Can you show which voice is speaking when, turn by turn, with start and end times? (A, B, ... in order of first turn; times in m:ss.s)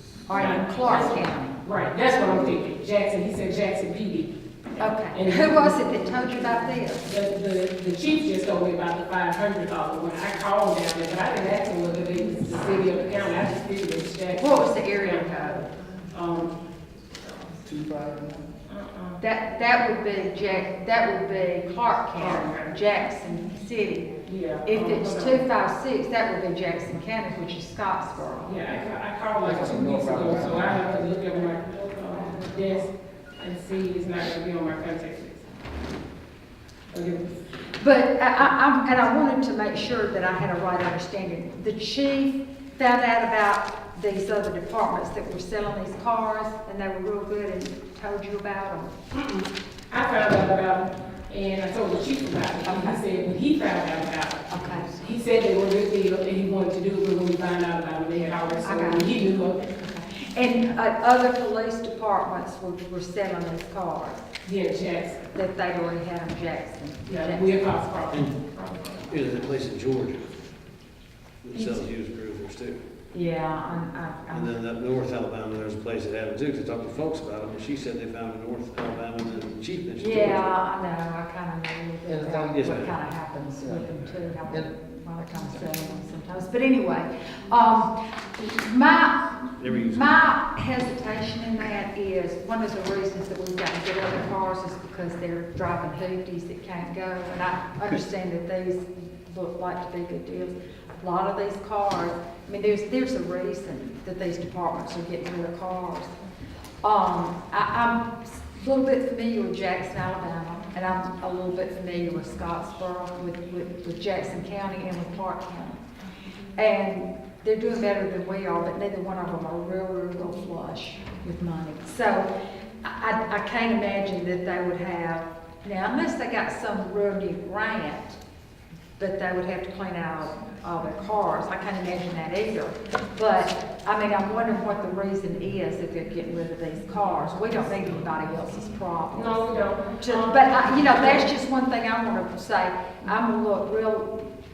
0:00.3-0:01.6 A
0:00.3-0:04.3 B
0:04.8-0:07.0 A
0:05.1-0:05.8 B
0:07.0-0:16.6 B
0:14.3-0:15.6 A
0:17.6-0:18.5 C
0:18.7-0:19.2 B
0:19.2-0:24.1 A
0:22.2-0:22.8 B
0:24.3-0:25.5 B
0:24.7-0:28.5 A
0:28.4-0:35.5 B
0:29.4-0:31.1 C
0:36.9-0:37.4 B
0:37.8-0:48.9 A
0:49.1-0:59.8 B
0:52.6-0:53.0 A
0:54.5-0:54.9 A
0:58.6-0:59.1 A
0:59.8-1:04.2 A
1:04.4-1:05.2 B
1:05.3-1:07.6 A
1:07.1-1:09.1 B
1:09.1-1:10.3 D
1:11.4-1:12.8 D
1:11.5-1:11.9 B
1:13.1-1:14.6 A
1:14.3-1:20.4 D
1:20.0-1:46.1 A
1:22.1-1:22.8 C
1:22.5-1:22.9 D
1:23.6-1:23.9 C
1:29.6-1:30.2 D
1:46.8-1:55.8 A
1:56.6-2:02.3 A
2:02.8-2:08.2 A
2:09.0-2:19.4 A
2:19.1-2:21.3 B
2:20.0-2:24.3 A